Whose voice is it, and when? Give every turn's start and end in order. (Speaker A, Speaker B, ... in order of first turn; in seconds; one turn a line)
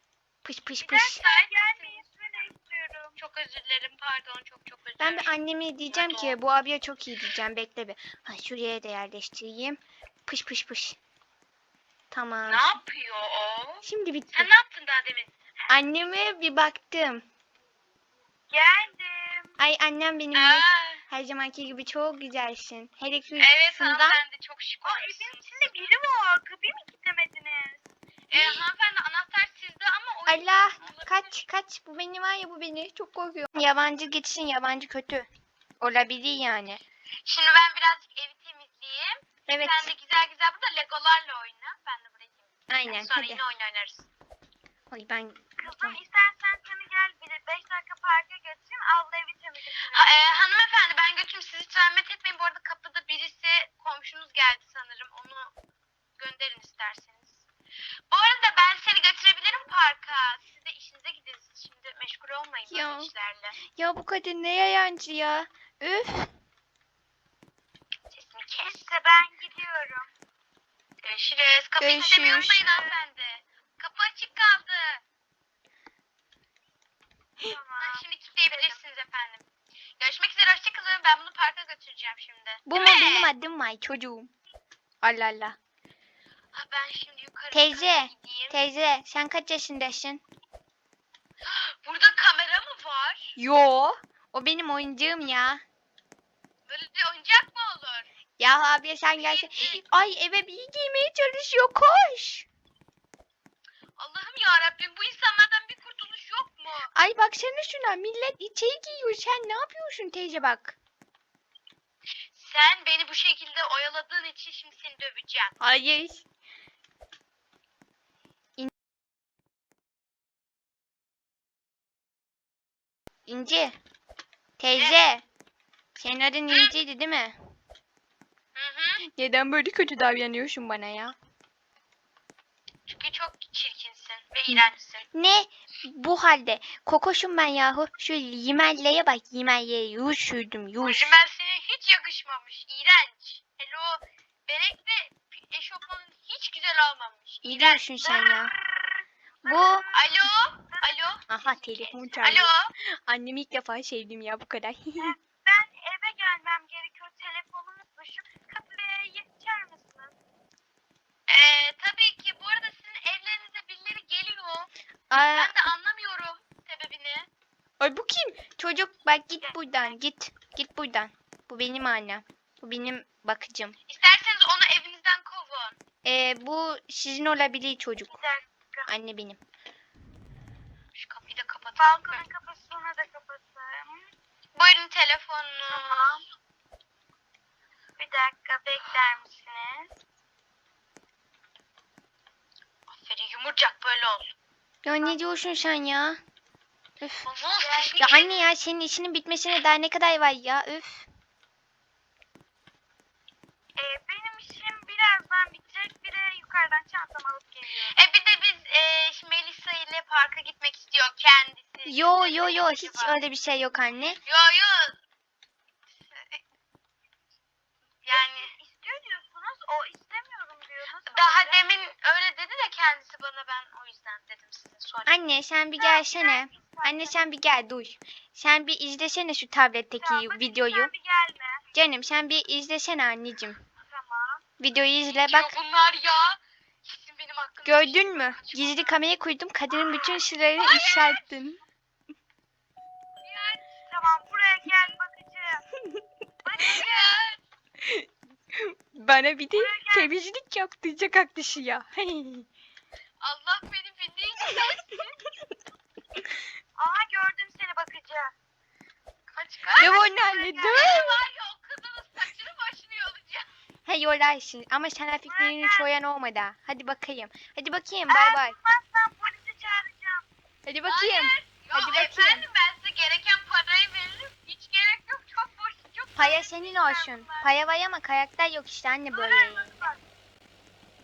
Speaker A: 0.4-1.2
Speaker B: 0.8-2.0
Speaker C: 1.2-3.2
Speaker B: 3.2-5.3
Speaker A: 5.0-11.0
Speaker B: 5.9-6.4
Speaker A: 12.1-12.7
Speaker B: 12.4-15.3
Speaker A: 13.8-14.5
Speaker A: 15.7-17.2
Speaker C: 18.5-19.5
Speaker A: 19.6-24.2
Speaker B: 20.3-21.0
Speaker B: 23.4-25.9
Speaker C: 24.8-27.8
Speaker B: 28.3-31.4
Speaker C: 28.3-28.6
Speaker A: 30.3-35.3
Speaker A: 35.8-36.8
Speaker B: 37.2-44.1
Speaker A: 39.5-39.9
Speaker A: 42.7-43.4
Speaker A: 44.9-46.0
Speaker C: 45.6-50.1
Speaker B: 49.7-55.5
Speaker B: 56.2-57.4
Speaker B: 58.1-63.5
Speaker A: 62.7-63.1
Speaker A: 63.8-66.3
Speaker B: 68.1-68.9
Speaker C: 68.6-70.1
Speaker B: 71.0-75.0
Speaker A: 71.8-72.6
Speaker C: 72.2-73.0
Speaker C: 77.4-78.8
Speaker B: 77.8-79.4
Speaker B: 80.0-83.3
Speaker A: 82.7-84.3
Speaker A: 85.0-85.6
Speaker B: 86.5-88.6
Speaker A: 87.5-90.2
Speaker B: 91.4-93.4
Speaker A: 93.4-95.6
Speaker B: 96.7-98.1
Speaker A: 98.4-102.5
Speaker B: 99.1-99.8
Speaker B: 104.0-106.9
Speaker A: 106.9-110.8
Speaker B: 112.3-115.6
Speaker A: 115.6-116.2
Speaker A: 123.3-123.8
Speaker A: 124.6-125.2
Speaker B: 124.8-125.0
Speaker A: 126.0-127.4
Speaker B: 126.5-126.8
Speaker B: 128.6-129.0
Speaker A: 129.2-131.2
Speaker B: 132.9-135.1
Speaker A: 135.1-141.1
Speaker B: 140.8-147.8
Speaker A: 147.4-148.5
Speaker C: 148.0-152.2
Speaker A: 149.4-149.9
Speaker B: 149.9-151.2
Speaker A: 151.3-155.1
Speaker B: 152.2-152.7
Speaker C: 155.0-160.1
Speaker B: 161.3-164.7
Speaker A: 165.1-165.6
Speaker B: 165.3-167.3
Speaker A: 167.8-173.8
Speaker B: 173.9-175.8
Speaker A: 176.0-178.1
Speaker C: 178.1-178.9
Speaker A: 178.9-179.4
Speaker B: 180.9-182.2
Speaker C: 181.8-184.1
Speaker B: 184.5-186.2
Speaker C: 185.7-186.2
Speaker C: 188.0-189.9
Speaker B: 192.9-194.3
Speaker A: 194.8-196.2
Speaker A: 197.0-197.2
Speaker B: 197.2-198.5
Speaker C: 197.6-198.1
Speaker A: 198.0-201.1
Speaker C: 203.8-207.9
Speaker B: 207.9-213.2
Speaker A: 211.9-214.2
Speaker B: 214.2-215.0
Speaker B: 216.1-216.4
Speaker B: 218.0-218.5
Speaker C: 218.1-221.6
Speaker B: 221.0-225.2
Speaker A: 225.1-230.9
Speaker C: 225.8-227.2
Speaker C: 230.0-231.6
Speaker A: 231.7-233.6
Speaker C: 233.9-234.4
Speaker A: 234.6-235.6
Speaker B: 235.1-238.9
Speaker A: 237.6-241.6
Speaker C: 239.7-240.1
Speaker B: 240.6-241.4
Speaker B: 243.2-243.7
Speaker C: 243.9-245.6
Speaker C: 246.4-247.2
Speaker B: 246.6-247.4
Speaker A: 247.8-252.5
Speaker C: 249.5-250.1
Speaker B: 253.2-255.2
Speaker C: 256.8-258.3
Speaker B: 259.3-263.5
Speaker A: 259.8-261.2
Speaker A: 263.9-268.6
Speaker C: 265.3-265.9
Speaker C: 268.1-270.2
Speaker A: 270.6-272.4
Speaker B: 270.9-277.5
Speaker A: 276.1-279.8
Speaker C: 279.1-280.0